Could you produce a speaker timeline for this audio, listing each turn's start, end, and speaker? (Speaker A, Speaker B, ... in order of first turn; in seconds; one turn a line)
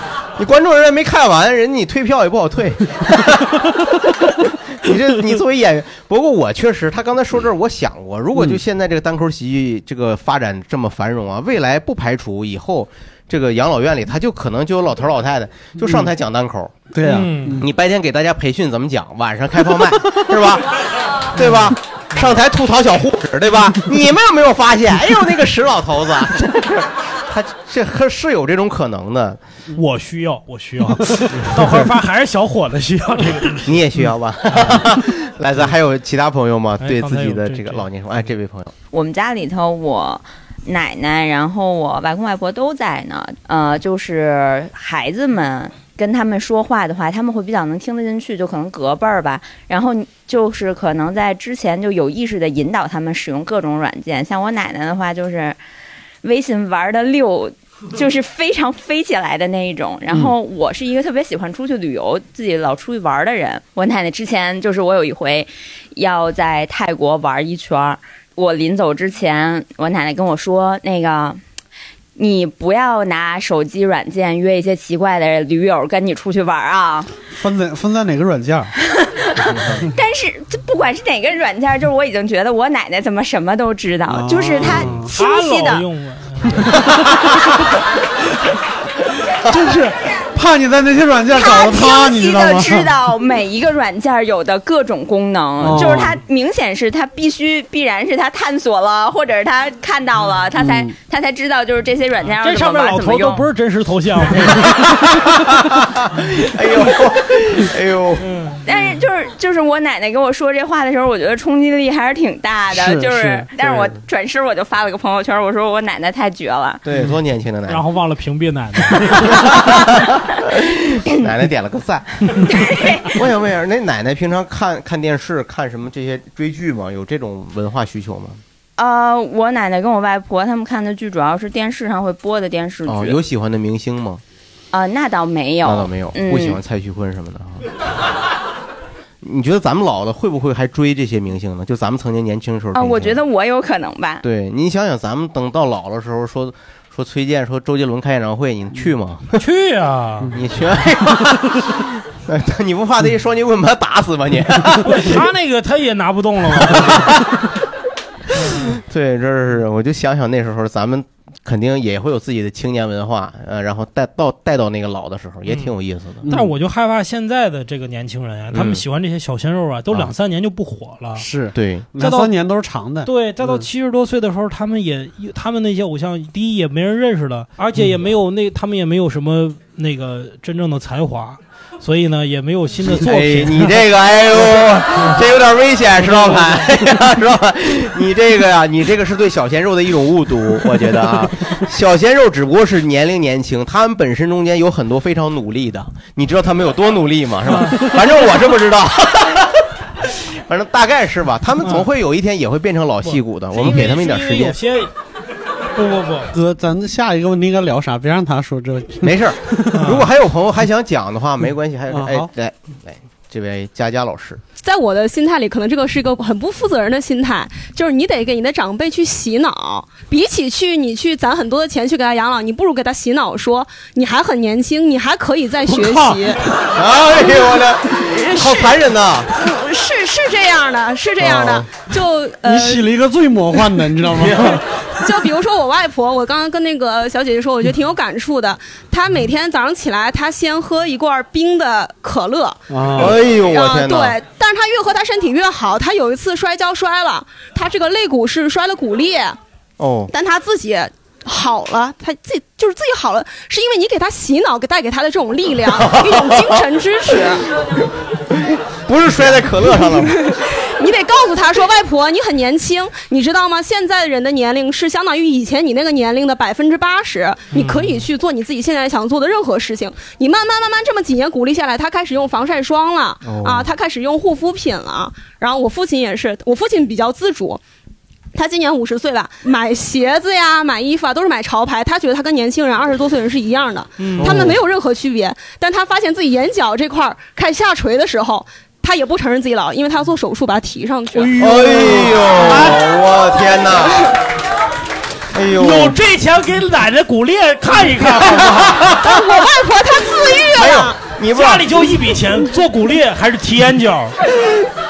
Speaker A: 0.4-16.8
Speaker B: 15.8-16.1
Speaker B: 16.9-17.6
Speaker C: 17.0-17.6
Speaker A: 17.6-20.7
Speaker A: 21.3-29.4
Speaker B: 21.4-21.7
Speaker C: 29.8-33.7
Speaker B: 31.0-31.6
Speaker A: 33.6-38.7
Speaker C: 36.8-37.9
Speaker D: 38.9-55.6
Speaker D: 56.2-71.4
Speaker D: 72.2-77.1
Speaker B: 77.3-78.7
Speaker A: 79.5-79.8
Speaker D: 79.9-85.8
Speaker B: 84.1-85.1
Speaker C: 85.1-87.1
Speaker B: 89.5-93.0
Speaker D: 91.3-103.5
Speaker B: 95.6-96.2
Speaker B: 100.6-100.9
Speaker C: 102.4-104.8
Speaker A: 104.7-108.2
Speaker C: 108.2-108.6
Speaker D: 108.6-116.8
Speaker B: 112.7-113.4
Speaker A: 113.6-114.0
Speaker A: 116.8-117.8
Speaker C: 117.7-119.3
Speaker A: 119.2-128.4
Speaker D: 122.5-123.2
Speaker D: 128.8-133.2
Speaker A: 132.8-134.2
Speaker D: 134.7-136.6
Speaker A: 135.6-137.6
Speaker A: 139.2-143.2
Speaker D: 142.7-144.2
Speaker A: 144.2-149.4
Speaker C: 149.4-150.3
Speaker A: 150.3-155.2
Speaker C: 154.8-157.2
Speaker A: 156.8-157.1
Speaker A: 158.7-166.3
Speaker C: 165.4-165.7
Speaker B: 166.2-166.5
Speaker C: 166.3-171.3
Speaker A: 168.5-168.8
Speaker B: 171.2-173.6
Speaker A: 171.5-171.9
Speaker C: 172.0-172.3
Speaker C: 173.0-183.8
Speaker A: 182.9-204.6
Speaker C: 186.0-186.7
Speaker C: 203.0-204.9
Speaker C: 205.8-206.3
Speaker B: 206.3-209.9
Speaker A: 209.0-214.4
Speaker C: 209.7-210.1
Speaker B: 211.9-212.3
Speaker E: 214.6-226.4
Speaker B: 225.7-226.2
Speaker A: 226.7-229.3
Speaker E: 227.2-232.9
Speaker A: 231.2-231.7
Speaker B: 232.4-234.6
Speaker A: 234.2-234.6
Speaker E: 234.4-249.4
Speaker B: 242.7-243.2
Speaker A: 242.9-244.2
Speaker A: 249.8-250.1
Speaker E: 250.1-257.5
Speaker A: 255.8-260.2
Speaker E: 259.9-277.6
Speaker C: 267.5-268.0
Speaker A: 273.2-273.7
Speaker E: 278.3-291.4
Speaker C: 284.0-284.5
Speaker A: 284.2-284.6
Speaker C: 291.1-292.9
Speaker A: 291.4-294.1
Speaker A: 295.3-296.0
Speaker C: 295.6-298.9
Speaker A: 298.4-299.2
Speaker E: 298.8-301.0
Speaker A: 300.4-301.7
Speaker C: 301.3-304.1